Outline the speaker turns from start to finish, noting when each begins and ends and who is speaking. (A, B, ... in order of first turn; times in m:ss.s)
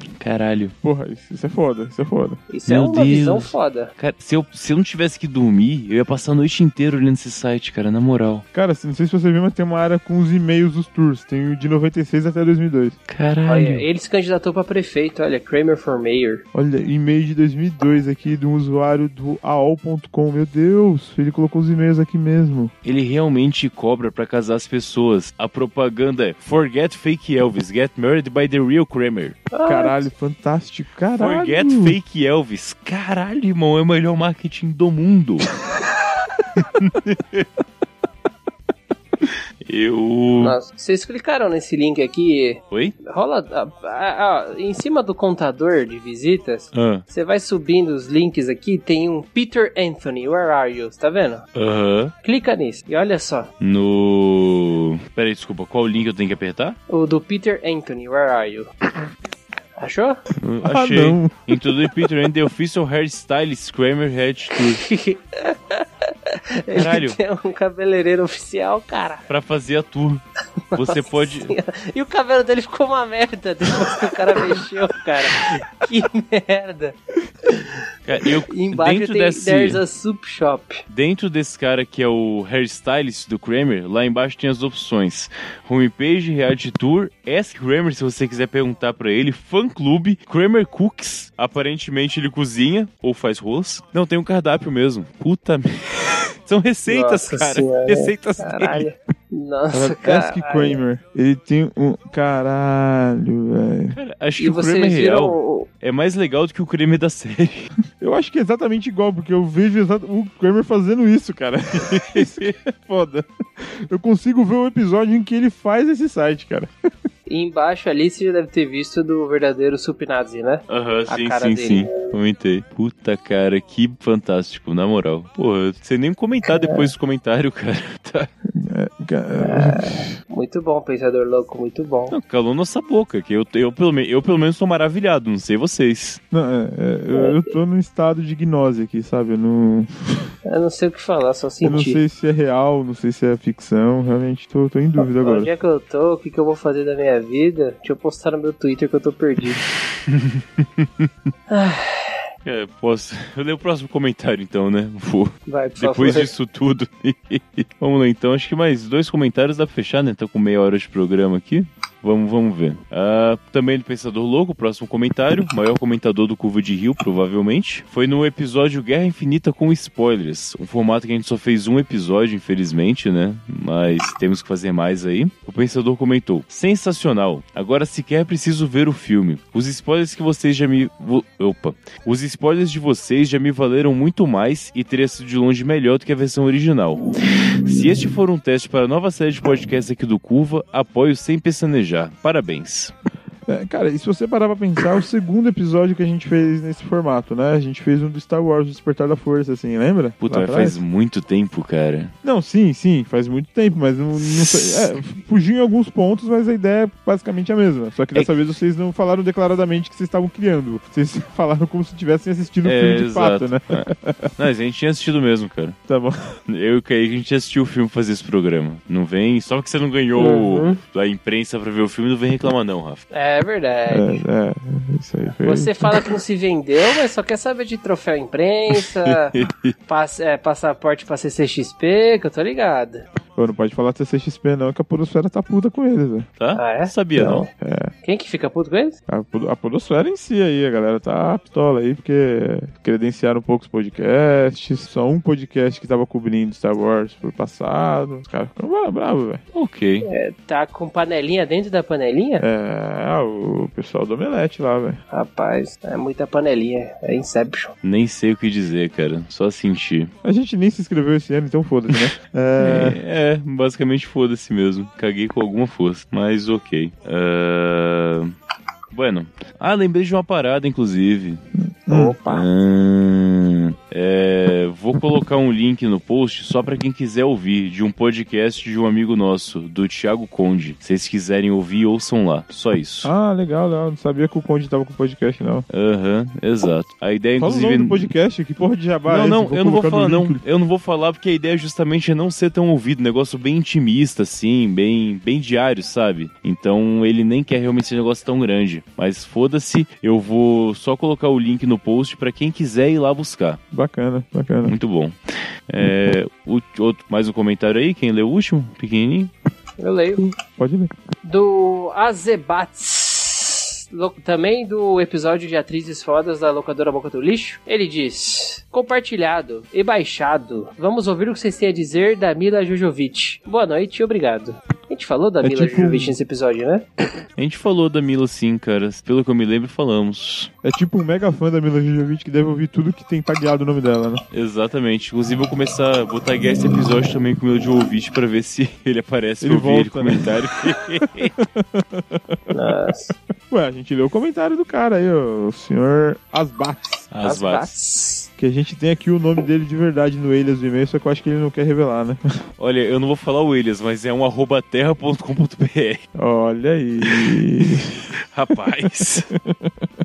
0:00.2-0:00.8 A
0:00.8-0:02.4 B
0:02.5-0:03.9 C
0:02.7-0:08.4 A
0:08.5-0:13.0 B
0:13.1-0:13.8 A
0:13.5-0:16.4 C
0:16.5-0:22.7 B
0:22.8-0:29.4 A
0:29.5-0:30.1 C
0:29.6-0:32.0 B
0:31.2-0:35.5 A
0:36.6-0:37.5 A
0:39.6-0:40.6 A
0:40.4-0:51.5 C
0:46.7-0:47.0 A
0:51.6-0:52.2 A
0:52.2-0:53.5 C
0:53.6-0:56.8 A
0:56.9-0:58.7 C
0:59.8-1:00.2 C
1:00.4-1:04.8 A
1:00.6-1:01.6 B
1:04.7-1:09.2 C
1:06.7-1:07.2 A
1:09.3-1:10.2 A
1:10.7-1:17.0 C
1:10.7-1:11.5 A
1:18.0-1:19.8 A
1:18.5-1:20.8 C
1:20.9-1:38.9 A
1:36.9-1:40.8 C
1:39.7-1:44.0 B
1:44.0-1:47.7 A
1:44.4-1:45.7 C
1:48.0-1:56.7 B
1:51.9-1:52.5 A
1:57.3-2:01.9 C
2:00.7-2:08.3 A
2:06.5-2:06.9 C
2:08.5-2:10.1 B
2:09.4-2:12.2 C
2:12.1-2:16.2 A
2:16.3-2:20.1 B
2:17.2-2:17.5 C
2:20.4-2:22.0 C
2:21.6-2:25.5 B
2:25.0-2:29.6 C
2:30.0-2:31.1 A
2:31.5-2:32.2 C
2:32.4-3:07.1 A
2:35.5-2:36.3 C
3:07.6-3:12.9 A
3:13.5-3:20.8 B
3:20.2-3:22.1 A
3:22.2-3:34.3 B
3:24.2-3:24.8 A
3:32.6-3:35.8 A
3:35.9-3:36.2 B
3:36.5-3:43.1 A
3:40.2-3:40.8 C
3:43.1-3:44.2 C
3:43.9-3:46.0 B
3:45.4-3:49.3 C
3:48.8-3:49.8 A
3:49.9-3:53.0 C
3:53.4-3:56.3 B
3:56.4-3:57.5 A
3:56.6-3:57.5 C
3:57.5-3:57.9 B
3:58.0-3:59.0 C
3:59.1-4:09.4 B
4:09.5-4:10.1 A
4:10.0-4:12.4 C
4:12.4-4:15.0 B
4:15.1-4:17.7 C
4:17.8-4:20.1 A
4:20.2-4:23.0 B
4:22.6-4:28.3 A
4:28.9-4:31.4 A
4:31.6-4:32.2 B
4:31.9-4:32.5 C
4:32.3-4:43.1 A
4:43.0-4:45.7 B
4:45.7-4:48.1 A
4:47.4-4:50.4 B
4:49.1-5:03.6 A
5:03.7-5:04.8 B
5:04.7-5:05.2 A
5:05.7-5:09.3 A
5:09.8-5:10.3 C
5:10.6-5:10.9 B
5:11.2-5:26.9 C
5:25.4-5:26.2 B
5:27.4-5:30.5 A
5:30.6-5:34.2 B
5:34.3-5:41.3 A
5:39.4-5:40.3 B
5:41.4-5:42.4 B
5:42.5-5:43.1 C
5:43.5-5:47.1 B
5:47.1-5:47.7 A
5:47.2-5:48.3 C
5:48.4-5:52.2 B
5:52.6-5:56.0 A
5:56.2-5:58.0 B
5:57.0-5:59.3 A
5:59.4-5:59.7 B